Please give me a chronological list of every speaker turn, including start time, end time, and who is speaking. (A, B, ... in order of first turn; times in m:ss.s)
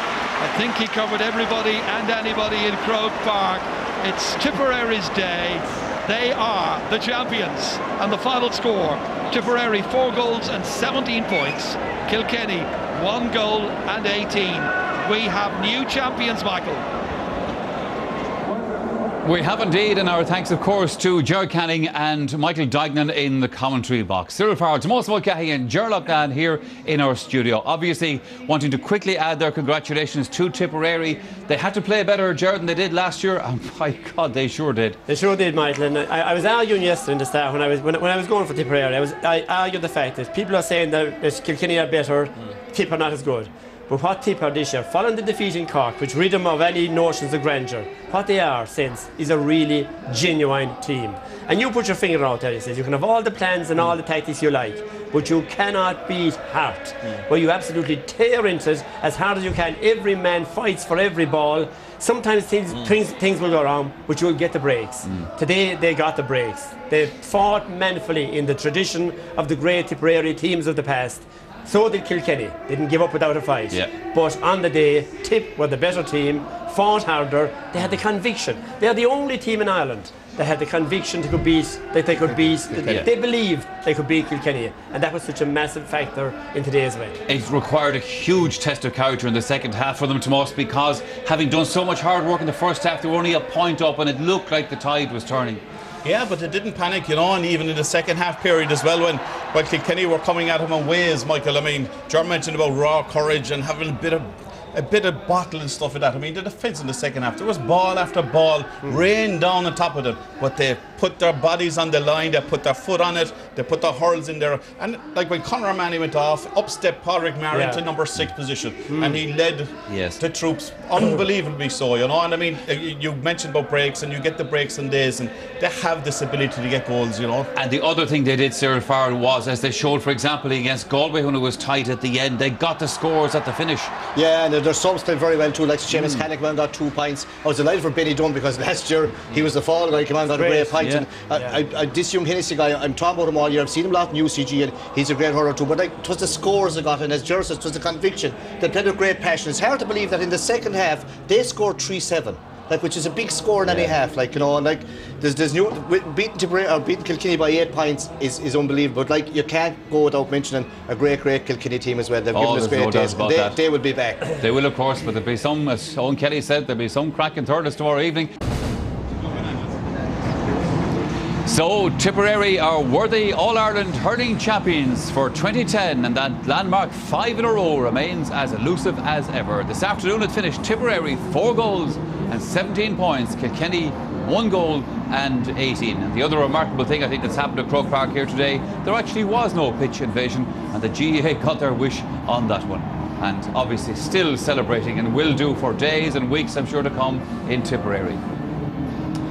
0:00.4-0:16.8 A
0:19.2-0:35.0 B
0:35.1-1:27.2 C
1:27.3-1:35.6 B
1:36.0-2:07.5 D
1:57.5-1:57.8 C
1:58.9-1:59.2 C
1:59.9-2:00.2 B
2:07.5-2:13.9 B
2:14.1-2:44.2 E
2:15.9-2:16.2 B
2:20.3-2:20.8 C
2:20.8-2:21.0 B
2:21.3-2:21.6 C
2:33.6-2:34.0 B
2:42.3-2:43.6 B
2:44.4-2:48.3 B
2:49.2-2:49.8 D
2:51.4-3:18.2 B